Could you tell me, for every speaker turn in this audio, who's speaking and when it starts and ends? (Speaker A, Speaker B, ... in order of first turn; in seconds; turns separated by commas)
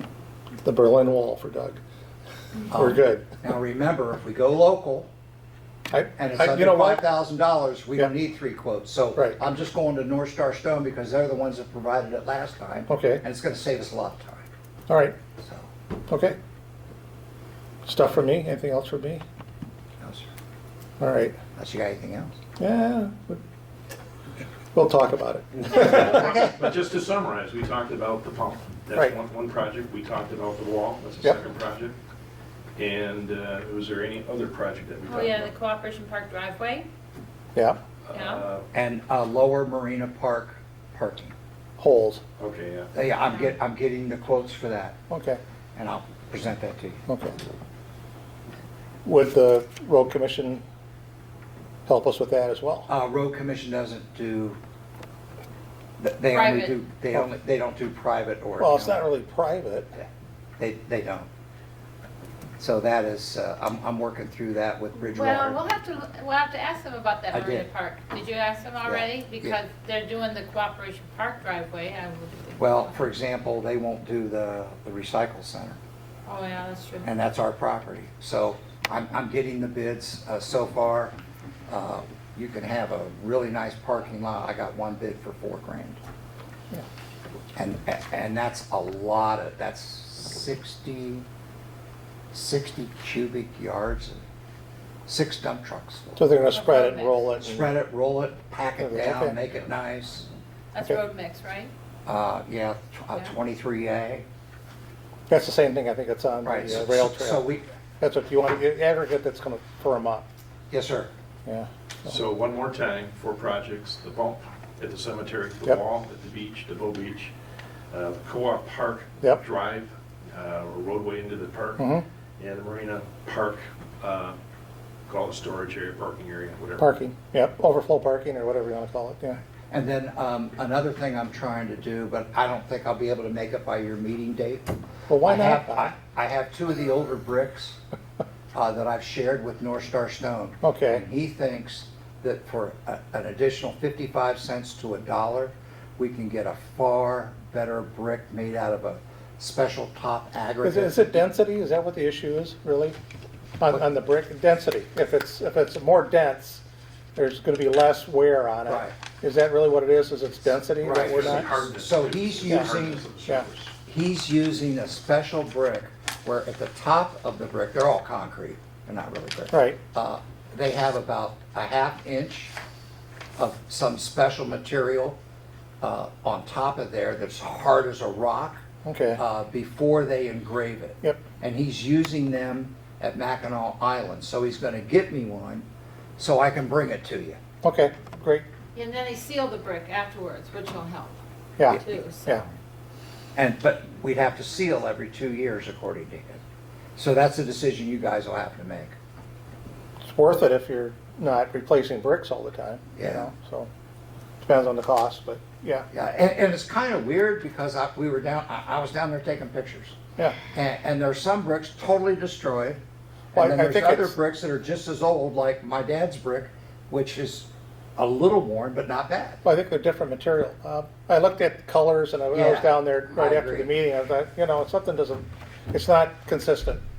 Speaker A: 0.6-1.8, Speaker A: 2.7-3.3, Speaker B: 2.7-5.1, Speaker A: 5.9-7.1, Speaker B: 6.2-14.5, Speaker A: 12.9-13.2, Speaker A: 14.9-15.2, Speaker B: 15.4-15.7, Speaker A: 16.1-16.4, Speaker A: 17.9-19.2, Speaker B: 20.0-20.3, Speaker A: 21.0-21.4, Speaker B: 21.6-22.4, Speaker A: 22.6-23.4, Speaker A: 24.7-26.5, Speaker C: 25.8-32.0, Speaker B: 25.9-26.3, Speaker C: 32.8-35.5, Speaker D: 35.1-36.9, Speaker C: 38.1-38.7, Speaker D: 38.1-38.5, Speaker B: 38.7-41.4, Speaker A: 41.8-42.2, Speaker C: 42.4-42.9, Speaker B: 42.9-45.0, Speaker A: 45.1-45.4, Speaker B: 45.8-47.0, Speaker A: 47.1-47.4, Speaker A: 49.0-50.6, Speaker A: 51.9-52.9, Speaker B: 52.9-54.6, Speaker B: 56.0-59.1, Speaker D: 56.3-56.8, Speaker A: 58.6-59.9, Speaker B: 60.0-61.3, Speaker B: 62.6-65.6, Speaker D: 65.0-73.1, Speaker B: 67.3-67.7, Speaker B: 68.8-69.6, Speaker B: 72.6-75.8, Speaker D: 76.2-77.1, Speaker B: 77.0-81.2, Speaker B: 81.7-86.0, Speaker B: 87.6-91.3, Speaker B: 92.3-94.2, Speaker B: 95.1-96.2, Speaker A: 96.2-97.7, Speaker D: 96.5-97.2, Speaker B: 97.4-100.3, Speaker A: 98.8-99.4, Speaker D: 100.7-101.7, Speaker B: 102.1-104.3, Speaker A: 105.3-107.5, Speaker B: 106.4-107.7, Speaker A: 108.0-110.3, Speaker B: 110.7-111.1, Speaker C: 112.0-117.3, Speaker C: 117.9-121.9, Speaker A: 121.8-122.0, Speaker C: 122.4-124.4, Speaker C: 125.1-126.9, Speaker A: 126.8-129.4, Speaker B: 129.7-137.8, Speaker A: 135.1-135.9, Speaker B: 138.5-151.2, Speaker A: 140.6-141.0, Speaker A: 150.6-153.0, Speaker A: 153.6-156.6, Speaker A: 157.2-161.7, Speaker B: 158.7-158.9, Speaker B: 160.8-163.1, Speaker C: 160.9-163.7, Speaker A: 162.5-163.5, Speaker B: 163.8-172.5, Speaker A: 169.5-169.8, Speaker B: 173.4-175.2, Speaker B: 175.8-178.6, Speaker A: 178.8-179.2, Speaker B: 179.2-185.7, Speaker B: 186.2-187.4, Speaker A: 187.6-188.5, Speaker D: 188.8-191.2, Speaker A: 191.6-192.5, Speaker D: 191.8-192.4, Speaker B: 193.3-196.4, Speaker B: 197.0-199.0, Speaker A: 200.0-203.7, Speaker B: 203.0-203.3, Speaker A: 204.4-205.9, Speaker B: 205.9-210.0, Speaker B: 210.5-212.8, Speaker A: 213.3-214.1, Speaker B: 213.3-219.4, Speaker A: 219.4-226.8, Speaker B: 222.3-223.7